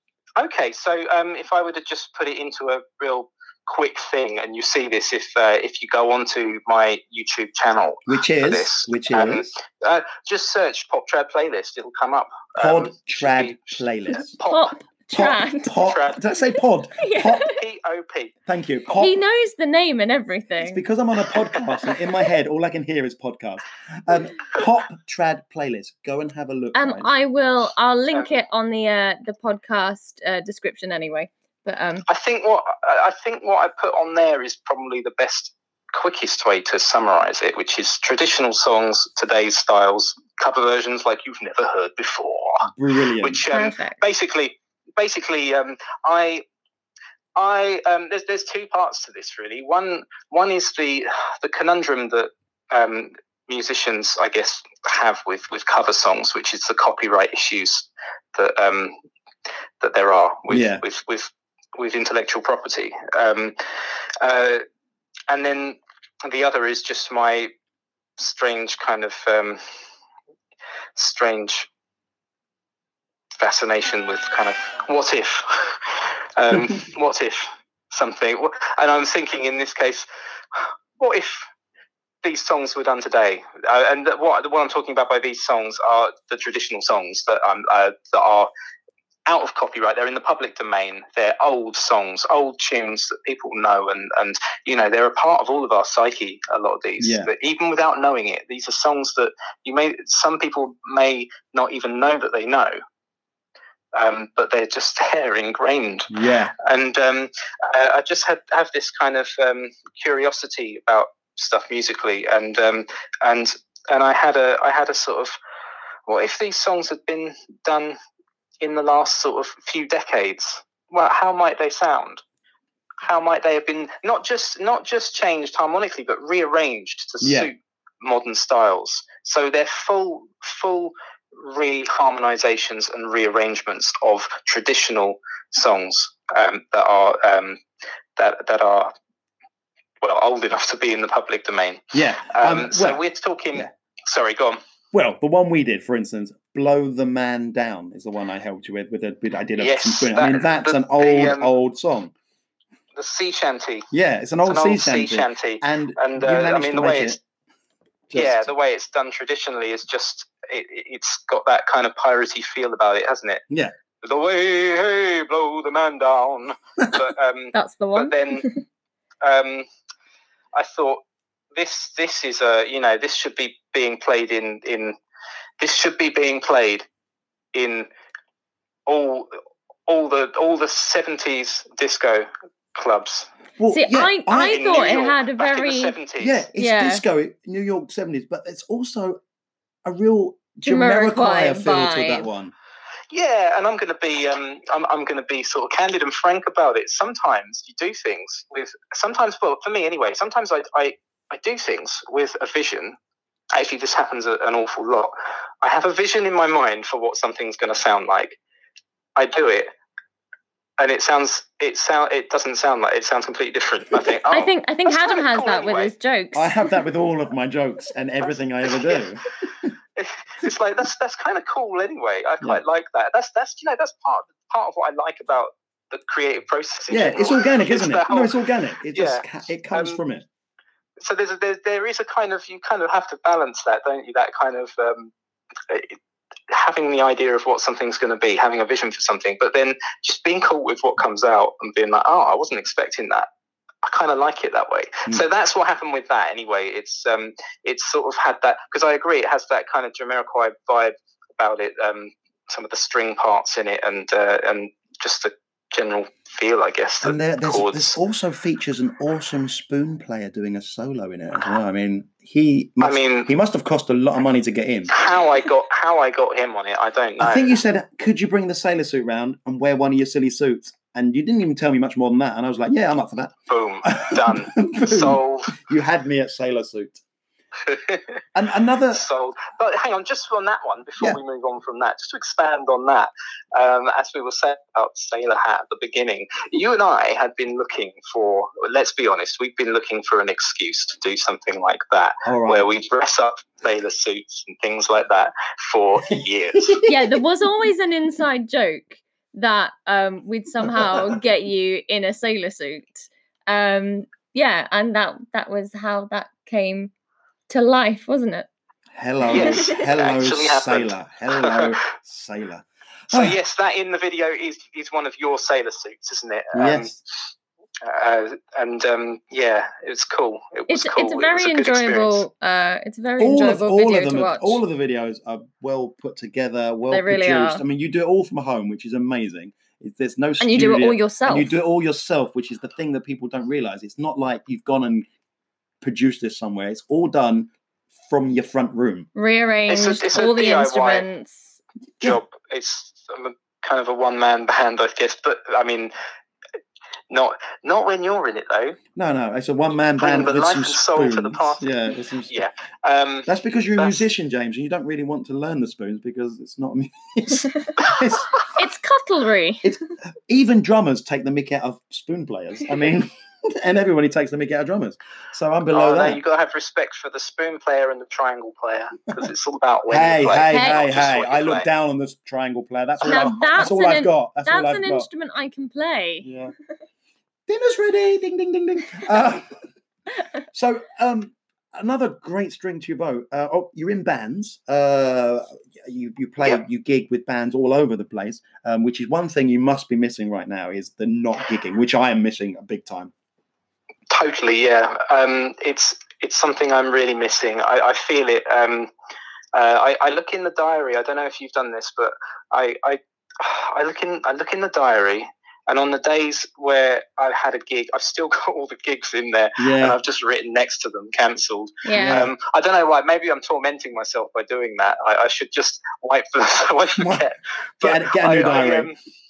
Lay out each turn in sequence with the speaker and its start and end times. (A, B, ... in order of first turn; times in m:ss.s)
0:00.4-0:14.7 A
0:08.1-0:09.5 B
0:12.6-0:14.4 B
0:14.5-0:15.8 C
0:15.1-0:17.5 B
0:15.8-0:16.2 A
0:17.0-0:17.6 C
0:17.5-0:18.4 A
0:18.5-0:19.2 B
0:18.9-0:20.8 C
0:20.6-0:27.1 B
0:26.8-0:32.1 C
0:32.1-0:42.7 A
0:42.7-0:43.4 B
0:43.2-0:46.4 A
0:43.5-0:44.0 C
0:47.4-0:58.9 A
0:59.8-1:03.6 A
1:00.5-1:00.8 B
1:04.2-1:04.6 A
1:05.3-1:07.5 A
1:08.2-1:09.6 A
1:11.0-1:11.7 A
1:13.4-1:21.4 A
1:22.2-1:28.5 A
1:29.3-1:42.8 A
1:37.0-1:37.3 B
1:43.9-1:55.4 A
1:46.1-1:46.5 B
1:56.1-1:58.0 A
1:58.6-2:02.2 A
2:03.0-2:17.6 A
2:07.2-2:07.5 B
2:18.2-2:18.9 A
2:20.0-2:24.6 A
2:21.9-2:23.0 B
2:24.9-2:32.1 B
2:29.6-2:31.5 A
2:33.0-2:33.9 A
2:33.9-2:37.2 B
2:34.4-2:37.2 A
2:38.1-2:38.5 B
2:38.1-2:43.4 A
2:44.0-2:48.5 A
2:47.5-2:48.6 C
2:49.2-2:49.7 A
2:50.5-2:51.0 A
2:51.6-2:55.0 A
2:55.6-2:56.9 A
2:57.5-2:57.9 A
2:58.9-2:59.3 A
2:59.9-3:03.3 A
3:03.6-3:04.7 B
3:03.7-3:06.0 C
3:04.4-3:06.4 A
3:06.2-3:09.2 B
3:06.5-3:07.0 C
3:09.8-3:12.5 B
3:10.6-3:12.3 C
3:13.1-3:23.0 A
3:23.5-3:28.4 A
3:29.2-3:29.7 A
3:30.8-3:35.9 A
3:34.3-3:36.7 C
3:36.4-3:39.7 B
3:38.3-3:39.1 A
3:40.0-3:48.3 A
3:46.9-3:50.3 B
3:48.9-3:50.0 A
3:51.0-3:55.1 A
3:55.7-3:56.0 A
3:56.5-4:03.3 A
4:03.8-4:18.0 A
4:17.0-4:24.9 B
4:22.8-4:23.3 A
4:24.9-4:27.6 A
4:27.2-4:37.0 B
4:33.5-4:35.6 A
4:37.6-4:38.2 A
4:38.4-4:39.1 B
4:38.9-4:56.8 A
4:52.2-4:52.7 B
4:56.1-4:56.9 B
4:56.8-5:06.9 C
5:00.8-5:01.1 B
5:07.5-5:08.5 C
5:08.9-5:13.4 B
5:09.3-5:11.8 A
5:13.1-5:17.0 A
5:16.5-5:17.0 B
5:17.8-5:22.2 A
5:20.7-5:24.6 C
5:23.2-5:35.1 B
5:26.9-5:27.6 C
5:30.4-5:31.5 C
5:35.8-5:37.5 B
5:38.1-5:39.1 B
5:39.2-5:41.6 C
5:39.7-5:41.1 A
5:42.0-5:45.9 A
5:47.1-5:48.8 A
5:49.0-5:52.4 B
5:50.0-5:51.7 A
5:52.3-5:54.0 A
5:53.3-5:58.3 B
5:58.5-5:59.7 C
5:59.6-6:06.2 B
6:05.7-6:11.7 A
6:09.9-6:15.1 B
6:10.5-6:10.8 C
6:13.0-6:16.3 C
6:16.2-6:16.5 B
6:17.5-6:19.5 B
6:20.5-6:33.1 B
6:34.1-6:38.9 A
6:39.5-6:59.0 A
6:49.6-6:50.0 B
6:51.8-6:52.2 C
6:52.0-6:52.3 B
6:57.0-6:57.2 B
6:57.8-6:58.9 B